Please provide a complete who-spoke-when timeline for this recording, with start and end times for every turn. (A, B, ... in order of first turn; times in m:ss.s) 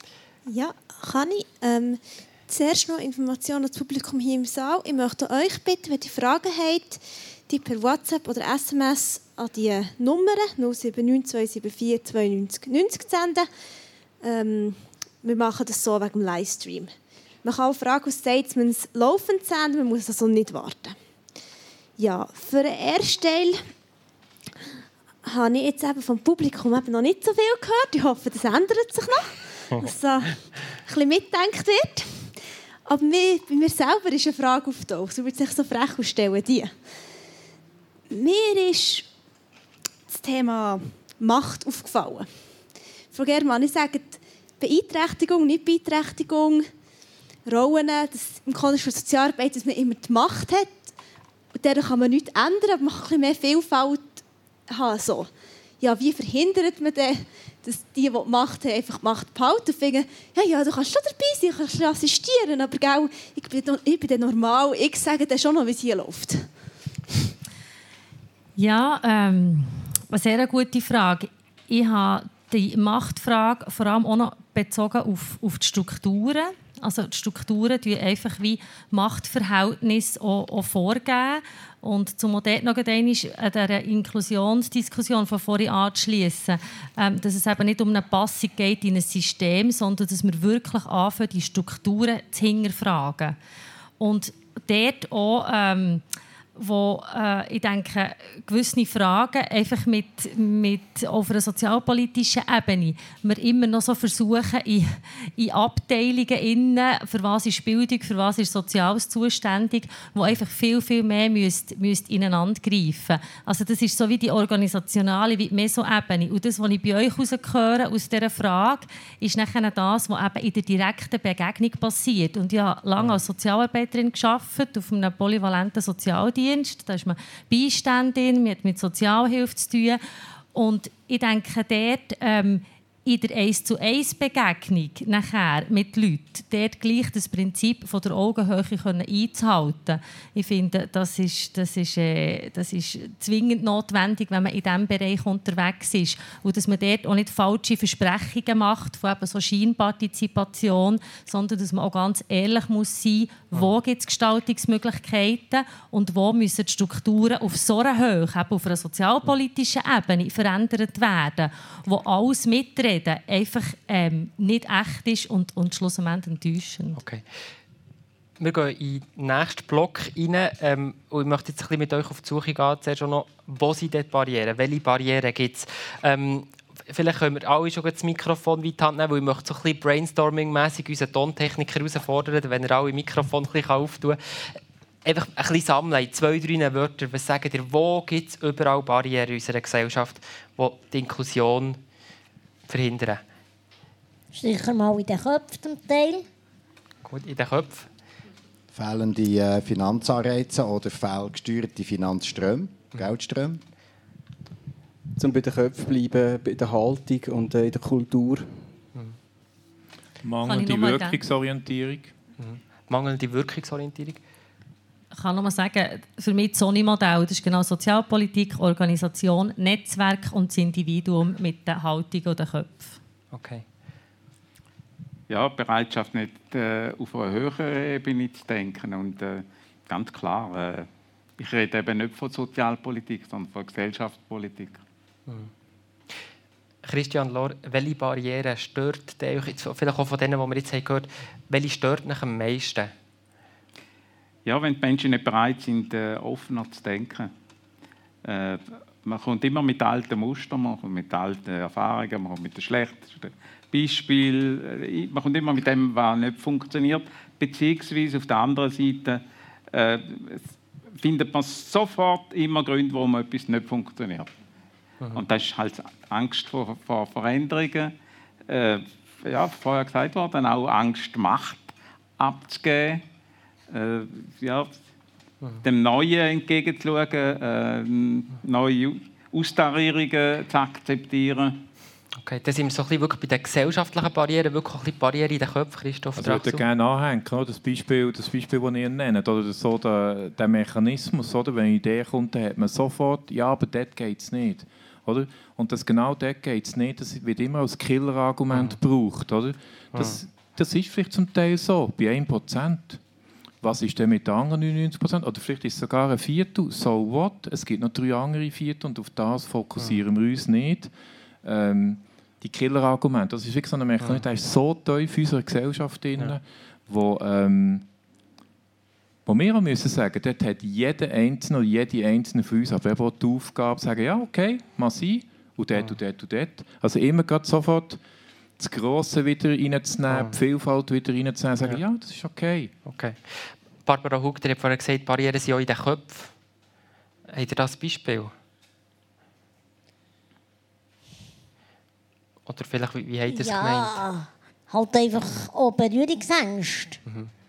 0:00.5-0:13.5 A
0:14.2-0:16.9 A
0:17.4-0:21.0 A
0:22.0-0:23.6 A
0:25.2-0:32.3 A
0:32.8-0:36.7 A
0:38.1-0:39.1 A
0:40.1-0:42.3 A
0:43.1-0:46.6 A
0:47.4-0:50.9 A
0:51.5-0:55.3 A
0:55.8-1:06.5 A
1:08.6-1:33.4 B
1:34.0-1:36.0 B
1:36.6-2:10.0 B
2:10.5-2:47.0 B
2:47.0-2:47.2 C
2:48.4-3:11.8 C
3:12.7-3:13.2 C
3:14.3-3:16.2 D
3:17.0-3:17.9 C
3:18.7-3:23.6 E
3:25.2-3:28.6 F
3:30.2-3:32.1 G
3:30.4-3:31.2 B
3:32.4-3:34.2 C
3:35.2-3:43.0 B
3:43.3-3:43.6 C
3:45.3-3:50.9 H
3:51.4-3:54.8 H
3:56.8-4:02.9 C
4:04.4-4:07.3 H
4:08.2-4:19.2 H
4:19.7-4:24.3 H
4:25.1-4:27.9 H
4:28.5-4:33.0 H
4:33.7-4:34.8 H
4:35.6-4:41.6 H
4:42.2-4:46.6 C
4:46.2-5:03.0 G
4:58.5-4:58.8 C
5:03.6-5:10.9 G
5:11.4-5:17.8 G
5:19.2-5:28.0 G
5:28.6-5:32.7 G
5:30.1-5:30.4 C
5:32.8-5:36.3 C
5:37.3-5:38.3 C
5:42.5-5:44.0 C
5:43.3-5:47.0 D